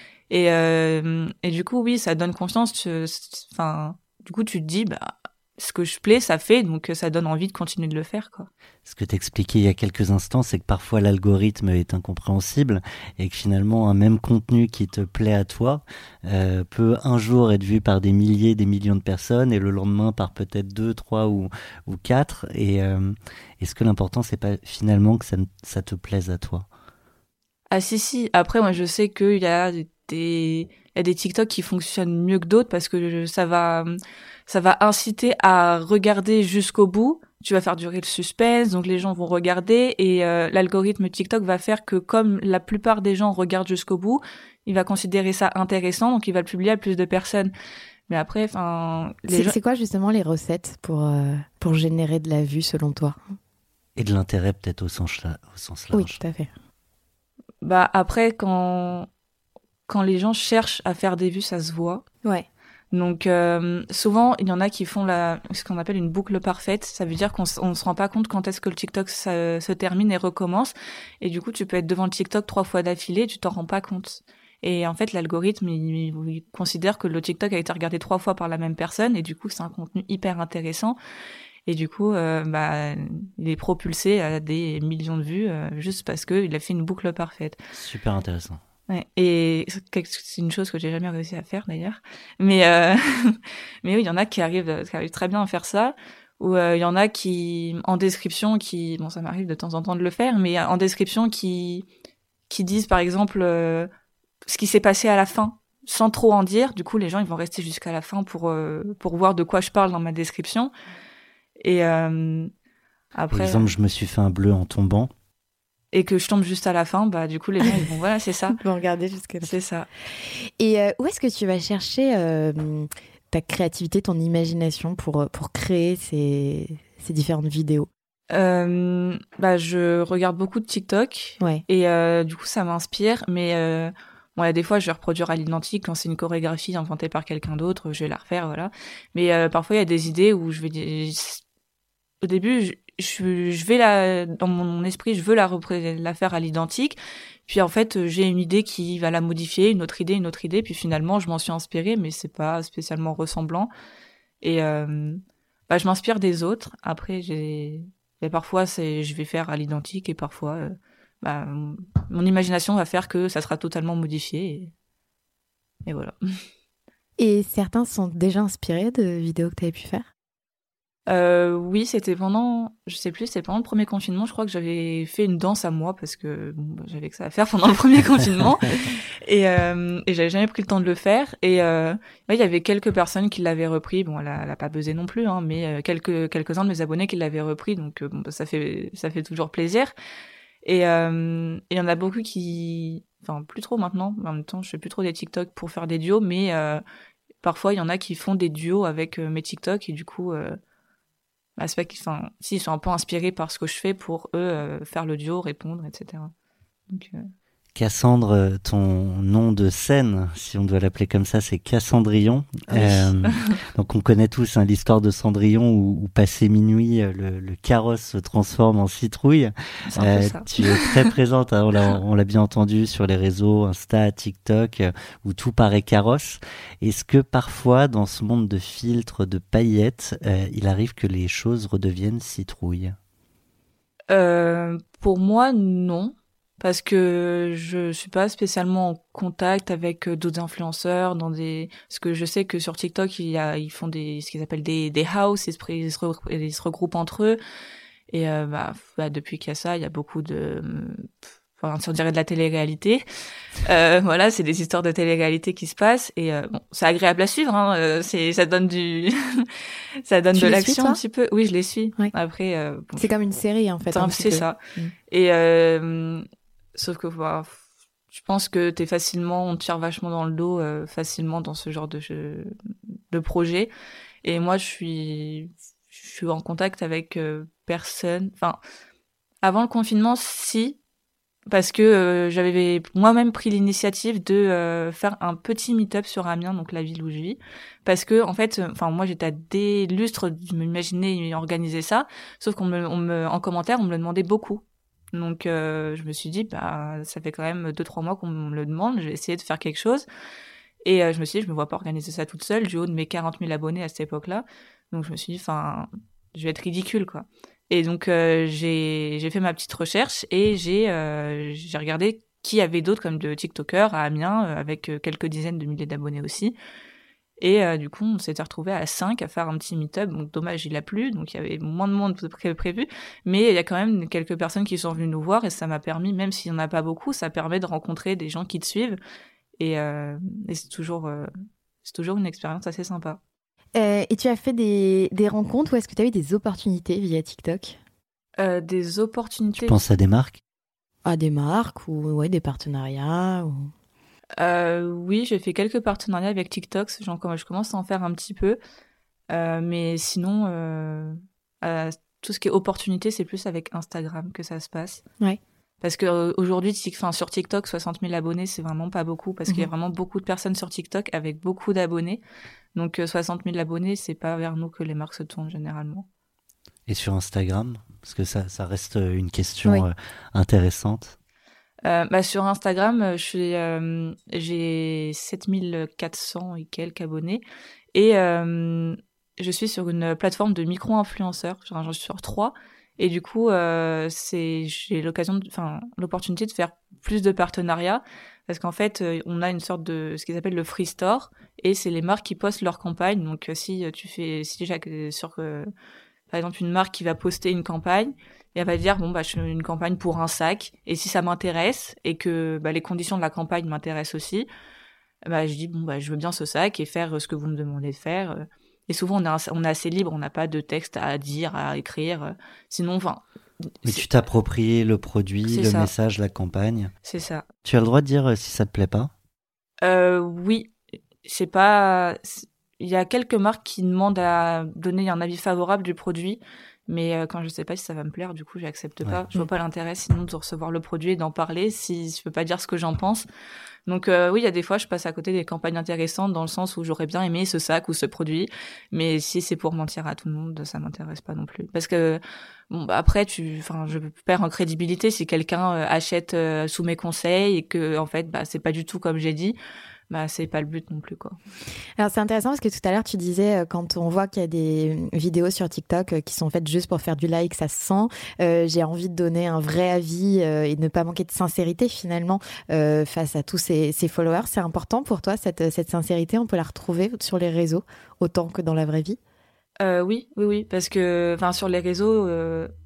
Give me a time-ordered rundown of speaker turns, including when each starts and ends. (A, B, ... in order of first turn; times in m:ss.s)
0:00.3-0:08.5 A
0:08.8-0:26.7 B
0:27.7-0:33.9 A
0:34.5-0:47.5 A
0:48.1-0:49.5 A
0:49.3-0:53.2 C
0:54.0-0:56.2 B
0:55.9-0:56.5 C
0:57.6-0:59.1 A
0:59.9-1:02.0 A
1:02.9-1:21.0 A
1:21.6-1:27.6 A
1:27.7-1:28.6 B
1:28.9-1:41.8 A
1:42.5-1:43.9 A
1:44.4-1:50.7 A
1:51.6-1:52.5 A
1:53.1-1:53.7 A
1:53.3-1:55.1 B
1:55.9-1:58.6 A
1:58.5-1:59.6 C
1:59.4-1:59.9 A
2:00.2-2:07.9 C
2:08.3-2:21.4 A
2:11.4-2:11.6 C
2:22.2-2:33.7 A
2:34.4-2:44.7 A
2:45.8-2:46.1 A
2:47.2-2:50.1 C
2:51.1-3:09.9 A
3:10.6-3:16.8 A
3:17.4-3:20.6 A
3:21.6-3:26.3 A
3:26.9-3:27.2 A
3:27.7-3:53.0 B
3:32.7-3:33.5 A
3:39.9-3:41.1 A
3:54.1-4:07.4 A
4:08.1-4:13.0 A
4:13.6-4:19.5 A
4:20.0-4:23.1 A
4:20.3-4:21.0 C
4:23.0-4:24.9 C
4:23.9-4:24.6 A
4:25.1-4:26.2 A
4:26.7-4:27.6 A
4:28.1-4:32.5 A
4:33.1-4:33.7 A
4:34.2-4:38.6 A
4:39.4-4:40.8 A
4:41.5-5:00.1 A
5:00.8-5:16.6 A
5:17.4-5:29.0 A
5:29.6-5:31.3 A
5:31.8-5:33.2 A
5:33.7-5:37.8 C
5:38.4-5:39.8 A
5:39.6-5:40.4 B
5:41.0-5:43.7 C
5:44.4-5:48.6 A
5:49.3-5:55.0 A
5:55.8-6:02.2 A
6:02.7-6:06.1 A
6:06.9-6:11.2 B
6:11.8-6:17.4 A
6:17.9-6:35.7 A
6:36.3-6:44.5 A
6:45.3-6:53.2 A
6:53.8-6:56.9 B
6:55.5-6:55.9 A
6:57.0-6:57.4 A
6:57.6-6:59.1 B
6:59.8-7:13.2 A
7:13.8-7:29.6 A
7:30.1-7:31.4 A
7:32.0-7:49.2 C
7:49.8-7:52.7 A